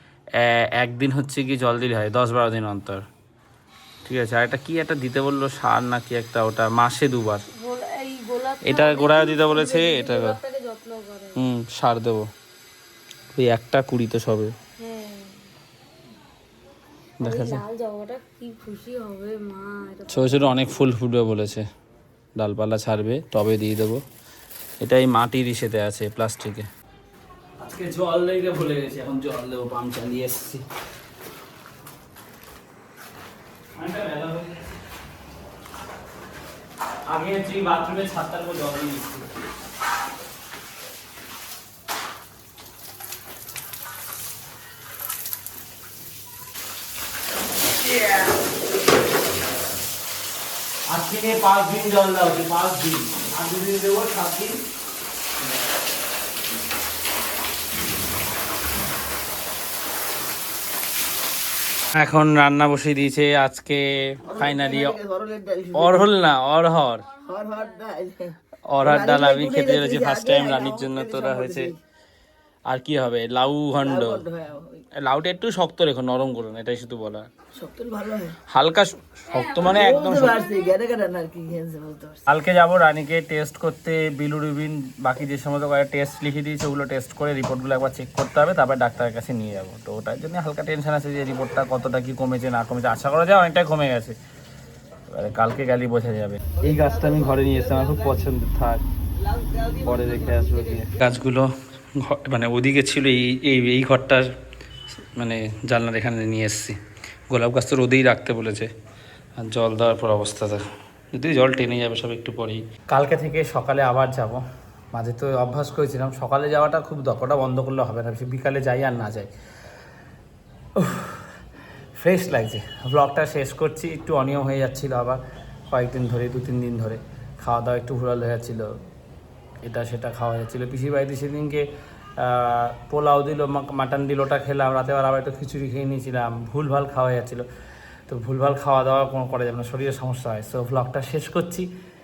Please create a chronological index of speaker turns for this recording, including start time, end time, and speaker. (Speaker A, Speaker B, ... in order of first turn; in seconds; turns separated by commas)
Speaker A: 0.4-3.0, Speaker A: 4.0-7.4, Speaker B: 7.6-11.4, Speaker A: 8.7-10.4, Speaker A: 11.4-12.3, Speaker A: 13.3-14.5, Speaker B: 14.8-15.5, Speaker A: 17.2-17.6, Speaker B: 17.2-20.7, Speaker A: 20.1-21.7, Speaker A: 22.4-24.0, Speaker A: 24.8-26.7, Speaker A: 27.6-30.6, Speaker A: 33.8-34.5, Speaker A: 37.1-39.3, Speaker A: 47.9-48.3, Speaker A: 50.9-54.6, Speaker A: 61.9-65.0, Speaker C: 64.3-66.1, Speaker A: 65.7-67.1, Speaker C: 67.2-71.8, Speaker A: 68.7-71.7, Speaker A: 72.7-74.2, Speaker C: 73.8-74.8, Speaker A: 75.0-77.3, Speaker C: 77.5-78.4, Speaker A: 78.5-80.4, Speaker B: 79.3-80.8, Speaker C: 79.6-82.2, Speaker A: 82.3-94.2, Speaker A: 95.1-98.8, Speaker A: 99.7-104.3, Speaker A: 105.2-106.8, Speaker A: 107.3-108.7, Speaker A: 109.4-119.3, Speaker A: 120.8-121.3, Speaker A: 122.0-128.7, Speaker A: 129.6-131.7, Speaker A: 132.2-137.5, Speaker A: 138.1-141.7